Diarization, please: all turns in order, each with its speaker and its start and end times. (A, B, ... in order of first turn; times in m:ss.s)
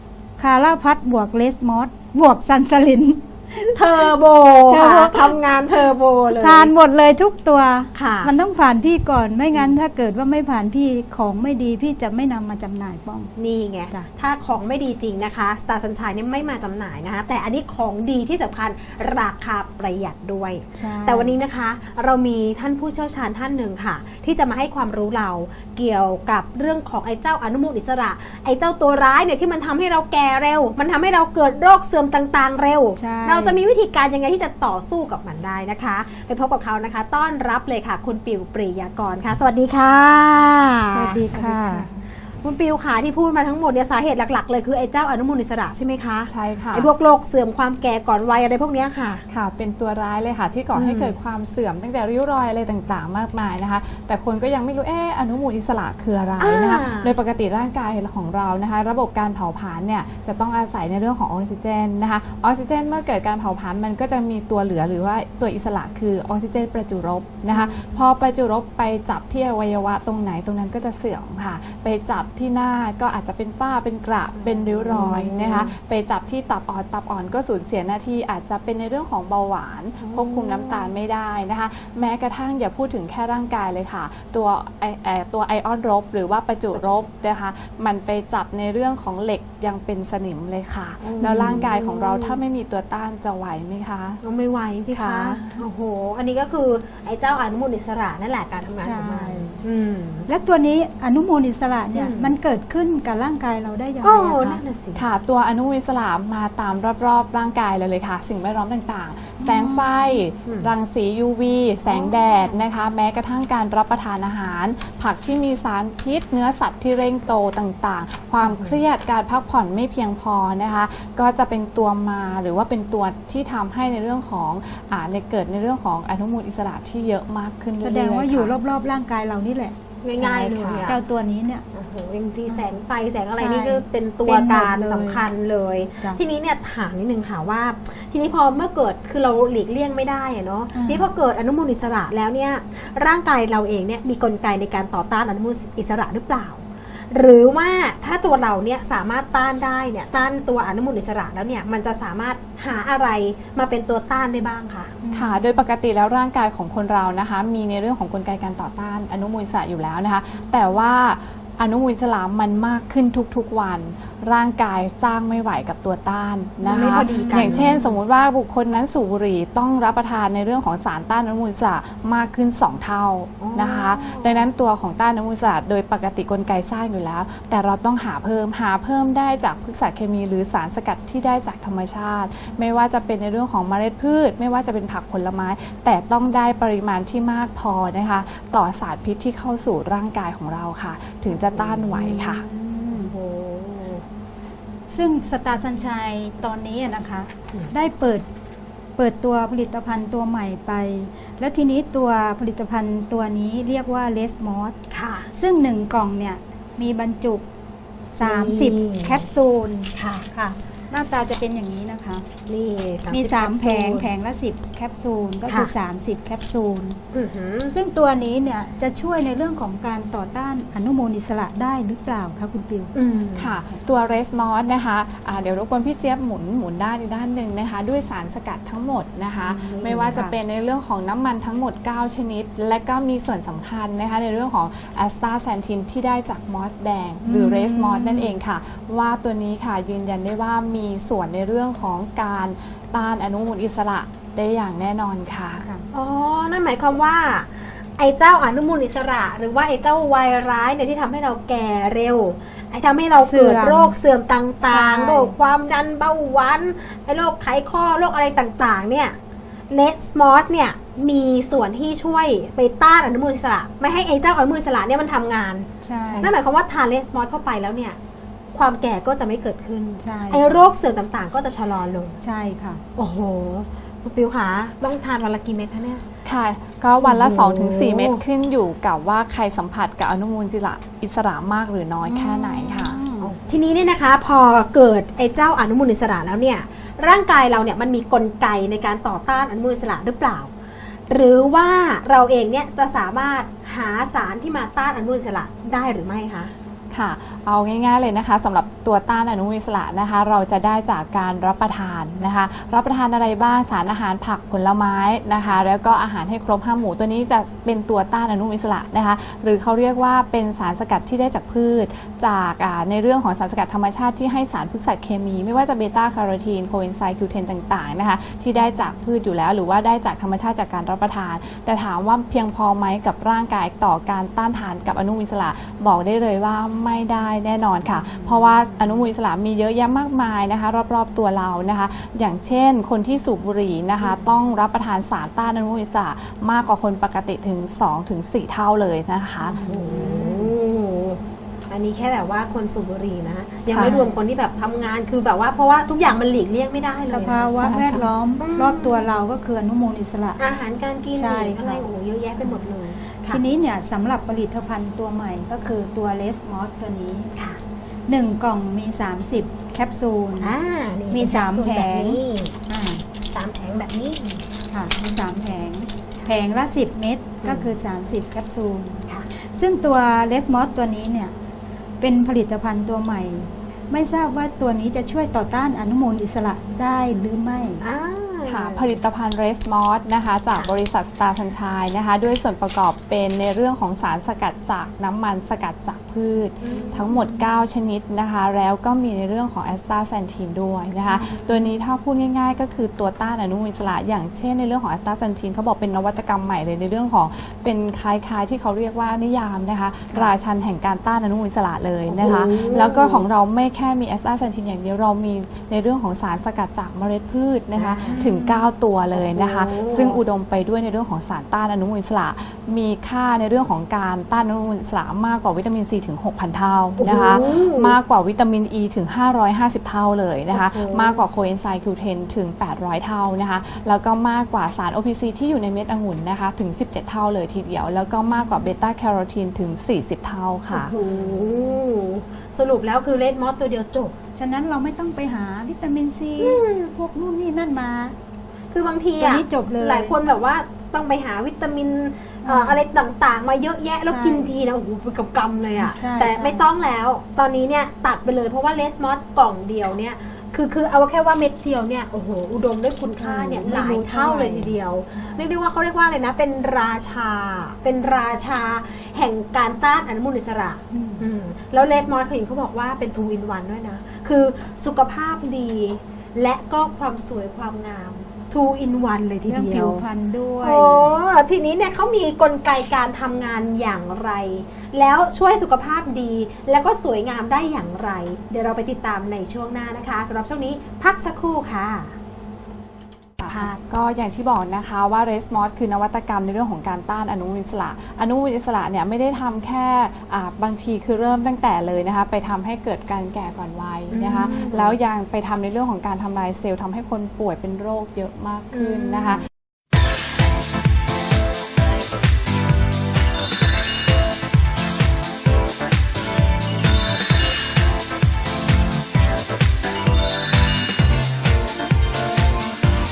0:00.4-0:04.1 A
0:03.7-0:06.7 B
0:04.7-0:05.4 A
0:06.3-0:13.3 A
0:07.9-0:08.3 B
0:13.4-0:49.2 B
0:20.7-0:21.4 A
0:33.0-0:33.6 A
0:40.9-0:41.9 A
0:46.3-0:46.9 C
0:49.3-1:34.2 C
0:50.7-0:51.2 B
0:56.4-0:57.1 B
1:07.5-1:08.0 B
1:14.4-1:15.7 B
1:20.0-1:20.9 B
1:31.0-1:32.4 B
1:31.2-1:31.6 A
1:34.2-1:40.3 B
1:34.9-1:35.6 C
1:38.8-1:39.6 A
1:40.3-1:44.6 A
1:41.9-1:42.3 B
1:44.0-1:45.0 B
1:44.9-2:08.6 C
1:49.4-1:50.2 A
1:50.4-1:50.7 B
1:51.9-1:52.5 B
1:58.5-1:58.8 B
2:07.8-2:09.8 A
2:10.0-2:11.0 B
2:10.2-2:10.9 C
2:10.8-2:11.6 A
2:11.7-2:35.0 B
2:13.3-2:15.2 A
2:20.7-2:21.1 A
2:35.0-2:35.4 A
2:35.1-3:12.4 C
2:46.6-2:47.8 B
2:46.6-2:47.8 A
2:53.4-2:54.5 B
3:11.3-3:14.0 B
3:14.9-3:18.2 A
3:19.0-3:24.7 A
3:24.9-3:25.3 B
3:25.3-3:27.4 A
3:28.2-3:32.2 A
3:28.2-3:29.2 B
3:29.9-3:30.3 B
3:32.5-3:34.1 B
3:33.1-3:37.0 A
3:35.5-3:35.7 B
3:37.1-3:37.7 B
3:37.7-3:42.9 A
3:42.9-3:43.5 B
3:43.4-4:05.6 C
3:49.4-3:50.2 B
3:57.2-3:58.3 A
4:05.9-4:19.1 B
4:13.2-4:13.9 A
4:14.7-4:15.3 A
4:19.7-4:25.7 B
4:25.8-4:26.3 A
4:26.2-4:28.0 B
4:28.5-4:32.2 B
4:30.0-4:30.6 A
4:32.2-4:32.8 A
4:33.0-4:36.0 B
4:36.2-4:43.0 C
4:37.0-4:38.2 B
4:42.1-4:43.3 A
4:43.2-4:50.5 B
4:51.1-4:56.5 B
4:56.9-5:39.6 C
5:28.0-5:28.6 B
5:39.4-5:40.4 A
5:39.6-5:49.0 B
5:43.7-5:44.0 C
5:47.1-5:50.4 A
5:50.4-5:53.4 B
5:51.2-5:51.8 A
5:53.3-5:57.3 A
5:58.1-6:00.5 A
6:00.4-6:02.5 B
6:01.1-6:03.0 A
6:03.3-6:04.4 B
6:04.7-6:11.3 A
6:07.4-6:07.7 B
6:12.0-6:17.8 A
6:17.8-6:19.0 B
6:18.4-7:10.9 C
6:26.6-6:27.2 B
6:31.1-6:31.6 B
6:42.1-6:43.2 B
6:47.8-6:48.6 B
6:49.1-6:50.2 B
6:57.0-6:57.9 B
7:00.5-7:01.2 B
7:10.7-7:14.1 B
7:14.4-7:18.2 A
7:16.4-7:16.9 B
7:18.7-7:50.0 B
7:19.2-7:20.2 A
7:22.4-7:22.8 A
7:24.0-7:24.5 A
7:25.8-7:26.7 A
7:33.2-7:35.4 A
7:40.9-7:41.2 A
7:49.5-7:51.1 A
7:50.6-8:02.1 B
8:03.4-8:19.4 C
8:03.4-8:03.8 B
8:14.1-8:15.0 B
8:18.7-8:19.4 B